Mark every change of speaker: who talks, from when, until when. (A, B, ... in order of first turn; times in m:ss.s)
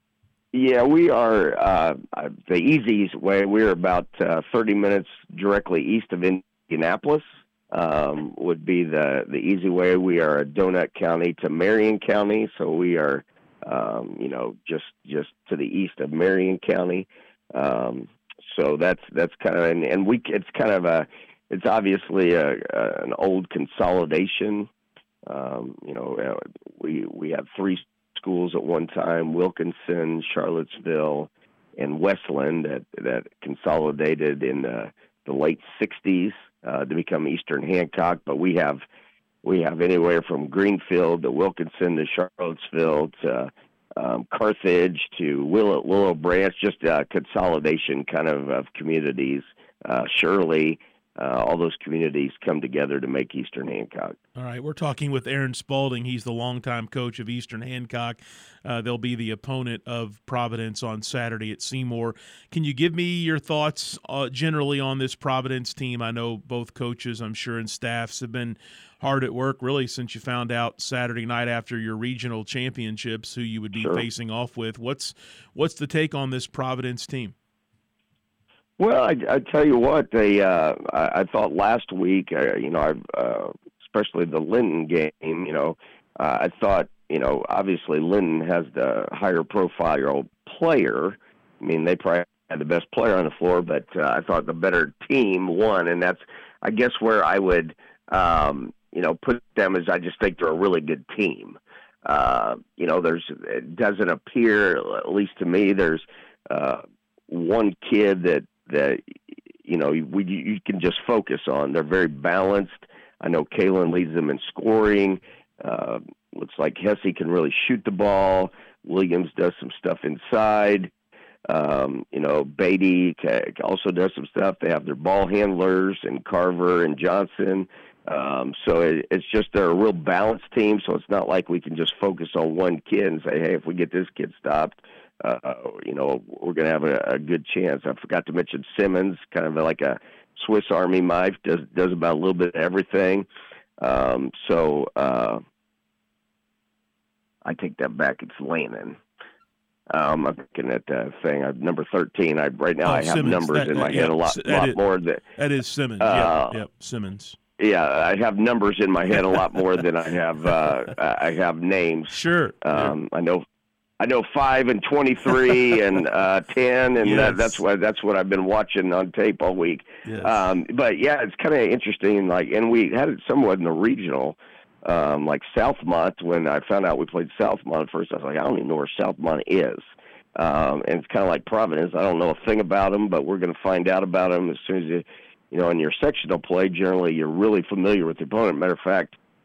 0:00.5-0:24.7 A
0:25.3-0:38.8 A
0:39.4-0:54.2 A
0:54.4-1:17.4 B
1:13.8-1:14.0 A
1:18.8-1:49.0 A
1:49.6-2:00.9 A
2:01.5-2:23.3 A
2:23.8-2:25.4 A
2:27.4-2:29.0 A
2:29.9-2:35.2 A
2:32.8-2:34.8 B
2:35.4-2:37.4 B
2:36.0-2:36.6 A
2:37.6-2:43.4 A
2:42.1-2:43.0 B
2:44.0-3:09.2 A
2:47.0-2:47.6 B
2:50.0-2:50.4 B